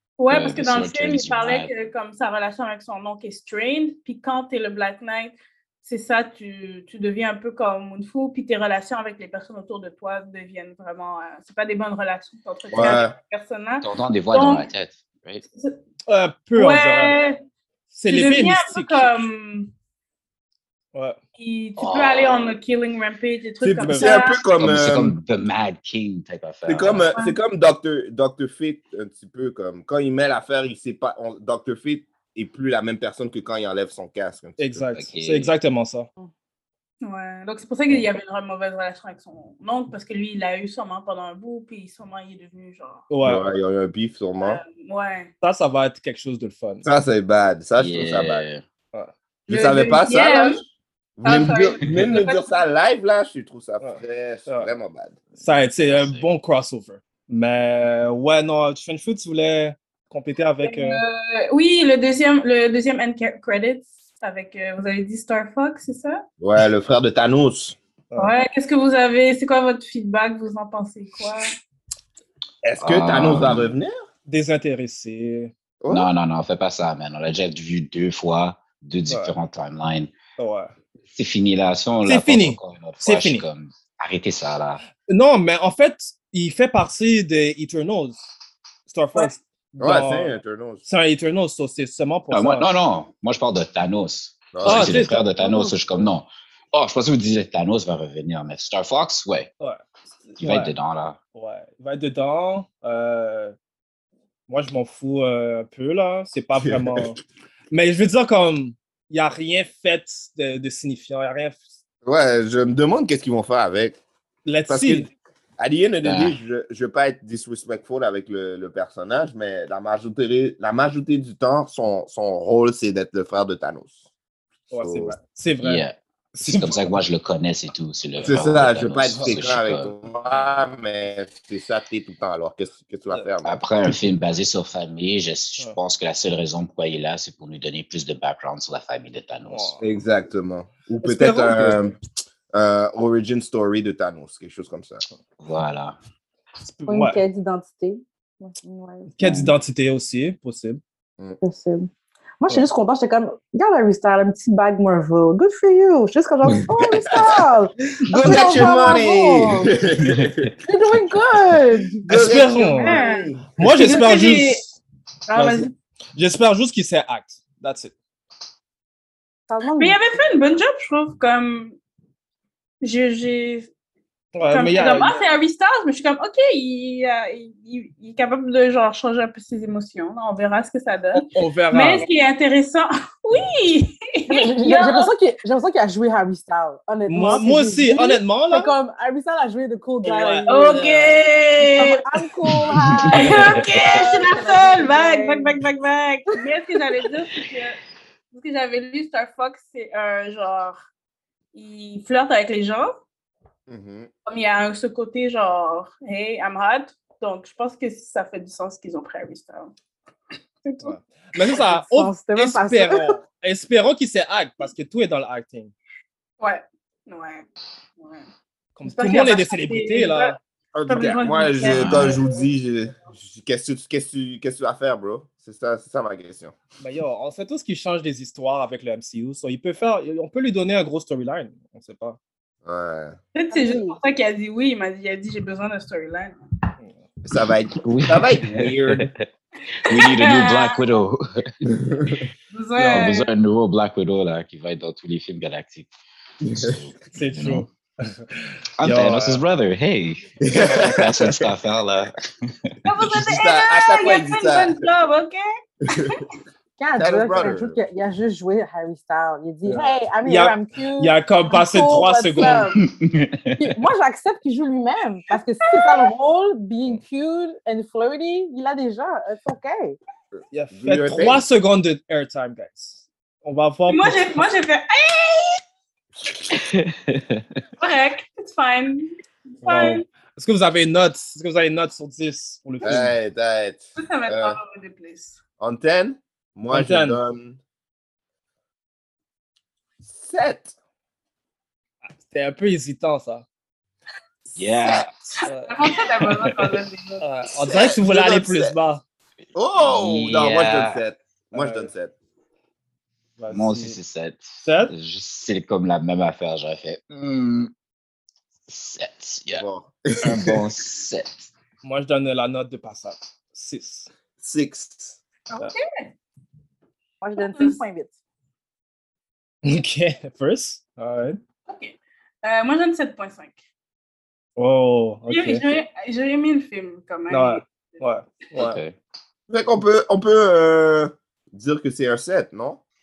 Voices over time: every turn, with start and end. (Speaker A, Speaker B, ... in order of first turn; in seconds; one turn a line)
Speaker A: 0.2-14.7
Speaker B: 0.3-1.9
Speaker C: 12.7-13.1
Speaker B: 13.8-15.4
Speaker A: 15.5-15.8
Speaker D: 16.1-17.1
Speaker A: 16.5-17.4
Speaker D: 17.9-19.2
Speaker A: 18.1-19.7
Speaker A: 21.4-24.4
Speaker B: 21.8-22.5
Speaker C: 23.6-25.2
Speaker D: 23.7-24.3
Speaker B: 24.6-27.1
Speaker C: 26.6-34.8
Speaker D: 34.6-36.1
Speaker B: 34.9-35.5
Speaker A: 37.0-43.1
Speaker D: 43.1-43.5
Speaker C: 43.2-44.6
Speaker A: 44.4-45.3
Speaker D: 45.4-46.9
Speaker C: 46.8-48.4
Speaker B: 47.8-48.6
Speaker A: 49.5-50.6
Speaker C: 49.5-50.7
Speaker C: 51.2-55.3
Speaker A: 51.2-52.5
Speaker D: 53.8-54.7
Speaker D: 55.4-61.0
Speaker B: 55.8-56.3
Speaker A: 60.6-66.2
Speaker C: 66.4-67.8
Speaker A: 68.2-71.5
Speaker C: 72.6-74.0
Speaker B: 72.8-73.7
Speaker D: 74.3-75.5
Speaker C: 75.8-76.1
Speaker B: 75.9-80.1
Speaker D: 79.1-79.3
Speaker D: 80.4-80.7
Speaker B: 81.1-84.8
Speaker D: 82.0-83.4
Speaker D: 85.1-88.3
Speaker D: 88.9-92.7
Speaker C: 89.8-90.8
Speaker B: 92.3-99.5
Speaker C: 94.5-95.0
Speaker D: 94.6-95.7
Speaker E: 95.4-95.7
Speaker D: 99.6-100.7
Speaker B: 100.4-101.2
Speaker D: 101.3-103.5
Speaker D: 104.5-107.2
Speaker C: 106.5-107.1
Speaker D: 107.7-111.7
Speaker C: 112.0-114.0
Speaker D: 114.5-115.1
Speaker C: 114.7-124.1
Speaker B: 116.0-116.4
Speaker D: 124.7-127.0
Speaker C: 124.7-125.2
Speaker B: 125.6-130.0
Speaker C: 128.2-133.7
Speaker B: 133.4-139.8
Speaker D: 139.4-139.8
Speaker C: 139.8-142.0
Speaker D: 141.0-141.9
Speaker C: 142.5-145.0
Speaker B: 145.4-146.0
Speaker D: 146.6-147.2
Speaker E: 146.9-149.1
Speaker D: 149.2-150.8
Speaker B: 149.2-149.5
Speaker E: 151.4-151.9
Speaker E: 152.4-159.7
Speaker C: 156.7-157.4
Speaker C: 158.1-160.5
Speaker A: 158.1-159.0
Speaker B: 160.0-160.5
Speaker E: 160.6-162.1
Speaker D: 162.0-163.0
Speaker C: 162.1-164.1
Speaker A: 162.8-164.6
Speaker D: 163.5-164.7
Speaker A: 165.3-165.7
Speaker D: 165.3-167.9
Speaker E: 169.5-170.2
Speaker A: 169.8-171.8
Speaker A: 172.8-173.7
Speaker D: 174.3-175.2
Speaker A: 174.5-185.1
Speaker D: 181.1-182.0
Speaker E: 184.3-190.9
Speaker D: 187.1-188.8
Speaker D: 190.0-191.2
Speaker A: 190.5-192.0
Speaker E: 191.8-195.6
Speaker A: 193.1-197.8
Speaker B: 193.1-193.5
Speaker A: 198.3-200.8
Speaker A: 201.5-202.9
Speaker C: 203.7-204.1
Speaker A: 204.2-209.7
Speaker A: 210.6-210.9
Speaker D: 210.8-215.7
Speaker E: 211.6-213.2
Speaker A: 216.4-217.5
Speaker A: 218.0-218.3
Speaker D: 218.7-220.4
Speaker A: 218.8-220.3
Speaker C: 220.7-226.6
Speaker A: 220.9-222.5
Speaker B: 221.6-222.2
Speaker D: 226.8-232.2
Speaker C: 232.6-233.2
Speaker A: 233.3-236.4
Speaker E: 233.5-234.0
Speaker D: 236.8-237.1
Speaker C: 237.2-239.1
Speaker B: 237.8-239.2
Speaker B: 239.8-241.5
Speaker A: 239.9-240.8
Speaker C: 241.7-242.2
Speaker A: 242.5-243.3
Speaker D: 242.8-243.0
Speaker B: 242.8-245.9
Speaker C: 246.4-246.8
Speaker B: 246.4-247.7
Speaker D: 247.1-249.4
Speaker B: 248.8-252.8
Speaker C: 250.4-251.5
Speaker A: 252.9-256.2
Speaker C: 253.1-254.8
Speaker E: 256.8-262.8
Speaker C: 257.0-257.8
Speaker D: 259.6-262.7
Speaker B: 262.8-263.6
Speaker E: 263.6-270.0
Speaker A: 265.8-266.0
Speaker C: 270.3-271.4
Speaker D: 270.5-274.4
Speaker A: 273.9-275.6
Speaker B: 276.6-277.4
Speaker A: 277.8-280.0
Speaker D: 279.6-283.1
Speaker C: 282.8-284.6
Speaker A: 284.0-285.4
Speaker C: 285.6-287.6
Speaker D: 286.7-287.2
Speaker C: 290.0-290.7
Speaker D: 292.2-293.4
Speaker B: 294.6-295.1
Speaker D: 294.6-295.9
Speaker A: 295.6-297.2
Speaker B: 296.3-296.8
Speaker D: 297.2-299.0
Speaker C: 297.7-298.7
Speaker C: 299.5-302.1
Speaker B: 299.8-301.0
Speaker D: 301.5-301.9
Speaker D: 303.4-304.0
Speaker B: 303.5-307.7
Speaker D: 304.6-304.9
Speaker B: 308.7-309.6
Speaker C: 309.5-310.6
Speaker B: 310.2-311.5
Speaker D: 311.8-314.1
Speaker C: 314.4-315.2
Speaker A: 315.5-316.1
Speaker E: 317.2-318.1
Speaker A: 317.4-317.8
Speaker D: 319.6-321.4
Speaker A: 321.7-323.6
Speaker D: 324.6-325.6
Speaker A: 325.3-328.0
Speaker D: 327.3-328.8
Speaker B: 328.6-328.9
Speaker C: 329.5-332.8